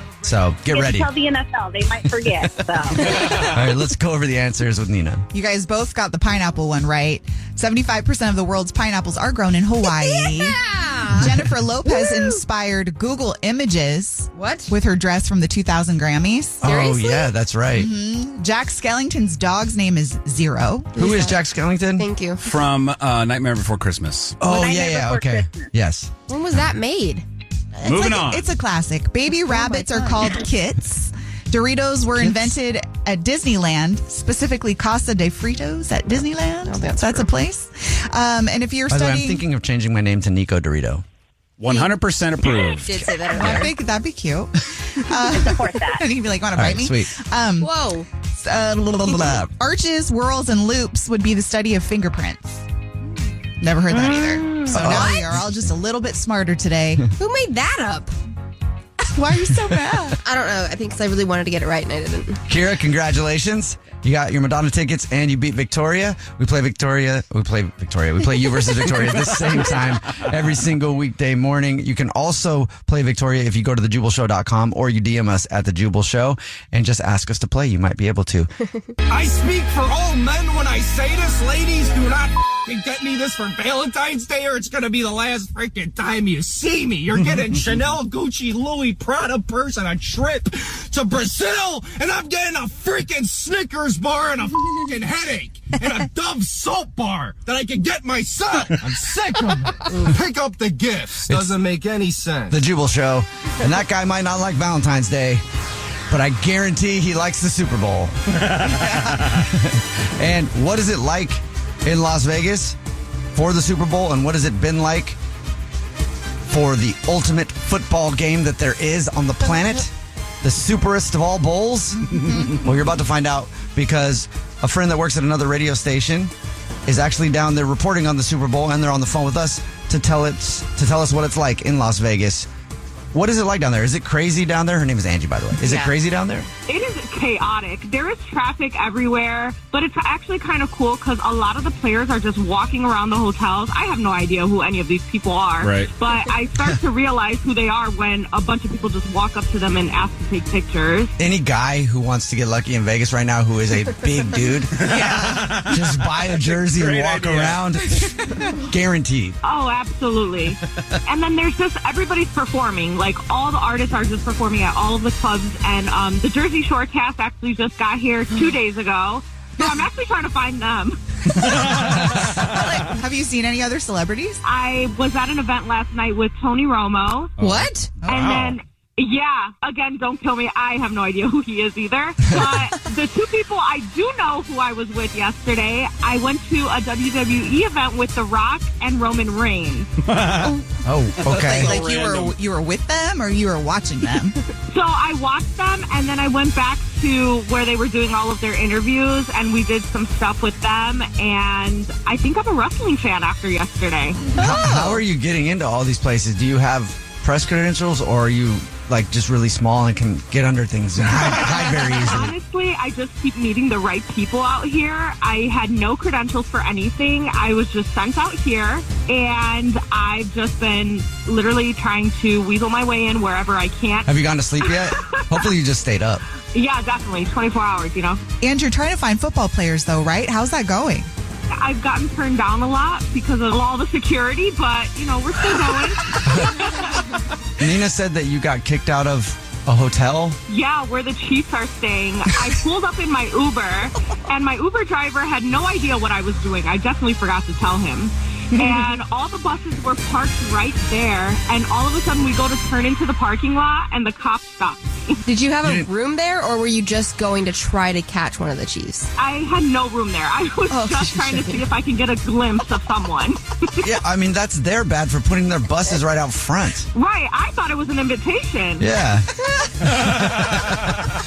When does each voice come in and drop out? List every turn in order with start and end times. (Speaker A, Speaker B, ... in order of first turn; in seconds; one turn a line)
Speaker A: 0.2-1.1
Speaker B: 0.7-3.3
Speaker A: 2.2-5.3
Speaker C: 3.0-3.3
Speaker D: 5.3-10.6
Speaker C: 9.9-12.4
Speaker D: 11.2-16.7
Speaker C: 14.3-14.7
Speaker C: 16.6-17.4
Speaker A: 16.6-17.9
Speaker D: 17.7-21.1
Speaker C: 21.0-21.4
Speaker A: 21.0-22.1
Speaker C: 22.0-22.5
Speaker E: 22.4-24.4
Speaker A: 24.4-26.1
Speaker B: 24.4-25.7
Speaker C: 26.3-27.2
Speaker D: 27.8-39.4
Speaker E: 27.8-28.5
Speaker C: 29.5-30.2
Speaker C: 36.6-37.3
Speaker A: 38.9-41.0
Speaker E: 41.6-43.5
Speaker C: 41.7-43.8
Speaker D: 43.3-47.8
Speaker B: 45.3-46.1
Speaker A: 46.5-47.1
Speaker C: 47.6-48.1
Speaker D: 48.4-52.6
Speaker A: 49.1-49.5
Speaker D: 53.6-57.1
Speaker C: 54.0-55.3
Speaker A: 54.7-55.5
Speaker C: 57.2-58.1
Speaker D: 59.1-60.2
Speaker C: 60.2-62.4
Speaker A: 62.5-78.5
Speaker F: 79.1-102.6
Speaker A: 101.3-101.6
Speaker A: 102.5-105.4
Speaker A: 106.1-108.2
Speaker A: 109.2-112.8
Speaker A: 113.3-115.2
Speaker A: 116.5-126.3
Speaker A: 126.9-132.5
Speaker A: 133.1-136.5
Speaker D: 135.6-135.9
Speaker G: 136.7-151.2
Speaker E: 145.6-145.9
Speaker A: 151.2-155.0
Speaker E: 154.8-157.6
Speaker D: 154.8-155.7
Speaker A: 155.7-159.4
Speaker G: 159.4-171.0
Speaker E: 171.4-172.6
Speaker D: 172.4-174.4
Speaker G: 174.4-177.3
Speaker E: 177.4-178.6
Speaker C: 177.4-177.9
Speaker G: 178.1-189.9
Speaker E: 190.0-190.6
Speaker A: 190.8-191.8
Speaker E: 191.2-192.4
Speaker D: 191.3-194.4
Speaker G: 194.7-204.3
Speaker C: 204.3-205.0
Speaker A: 204.4-212.3
Speaker D: 204.4-204.8
Speaker G: 211.9-224.8
Speaker A: 224.1-226.2
Speaker G: 226.5-228.2
Speaker D: 228.4-231.1
Speaker G: 231.5-237.0
Speaker A: 236.2-236.7
Speaker A: 237.6-240.4
Speaker G: 240.5-255.2
Speaker C: 255.2-259.1
Speaker A: 255.6-255.9
Speaker G: 259.2-263.9
Speaker C: 260.7-261.6
Speaker A: 263.8-266.9
Speaker G: 266.9-268.9
Speaker A: 268.8-269.3
Speaker A: 269.9-270.9